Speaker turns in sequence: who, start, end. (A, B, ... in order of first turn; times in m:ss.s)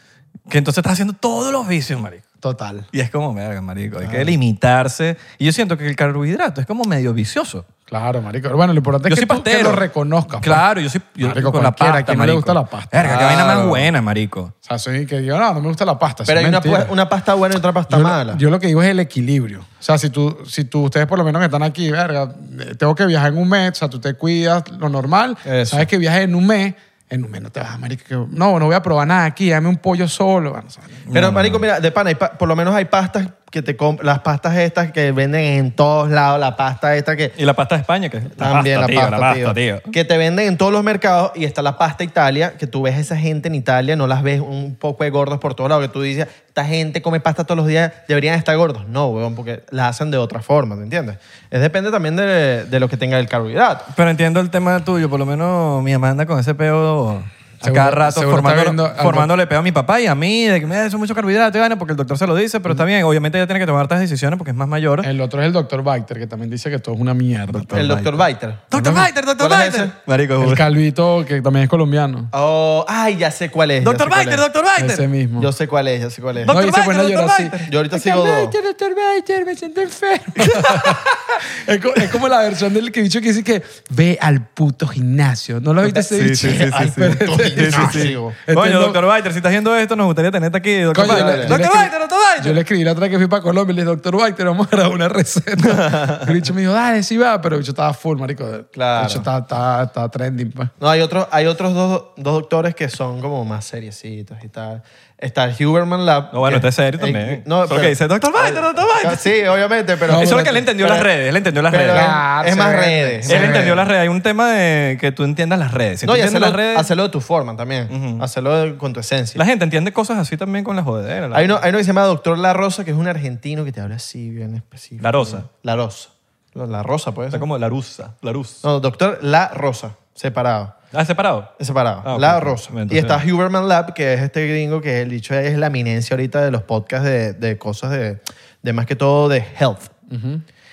0:00.5-0:02.2 A
0:02.4-0:02.9 B
0:02.9-0:07.6 A
0:07.9-0:10.6 B
0:09.0-0:09.8 A
0:10.4-0:14.5 A
0:11.2-0:13.0 B
0:13.0-0:13.9 C
0:14.6-0:16.9 B
0:16.3-0:18.4 C
0:17.9-0:31.0 B
0:25.4-0:25.8 C
0:31.1-0:31.6 A
0:31.1-0:37.4 C
0:37.4-0:39.9 A
0:38.4-0:53.9 C
0:53.9-1:05.1 A
0:57.6-0:59.3 B
1:05.0-1:07.9 B
1:07.5-1:10.7 A
1:07.7-1:08.7 C
1:08.7-1:09.1 B
1:09.4-1:09.9 C
1:10.4-1:12.3 B
1:12.3-1:14.4 C
1:13.8-1:15.0 A
1:14.8-1:15.5 B
1:15.4-1:16.6 C
1:16.4-1:17.8 A
1:16.5-1:29.0 B
1:17.7-1:18.5 C
1:20.4-1:21.1 A
1:25.8-1:32.6 A
1:26.4-1:28.4 C
1:30.9-1:40.7 B
1:31.0-1:31.6 C
1:35.6-1:36.3 A
1:38.7-1:39.2 C
1:40.8-1:51.1 C
1:46.3-1:49.3 A
1:50.1-1:52.2 A
1:50.1-1:50.6 B
1:51.7-1:53.8 C
1:51.9-1:53.7 B
1:53.2-1:56.9 A
1:56.0-1:59.4 C
1:57.9-1:58.2 A
1:59.4-2:01.6 A
2:01.3-2:07.5 C
2:05.0-2:05.4 A
2:07.3-2:08.6 A
2:08.6-2:10.8 C
2:10.9-2:11.5 A
2:11.6-2:19.9 C
2:12.0-2:13.2 A
2:20.1-2:20.4 B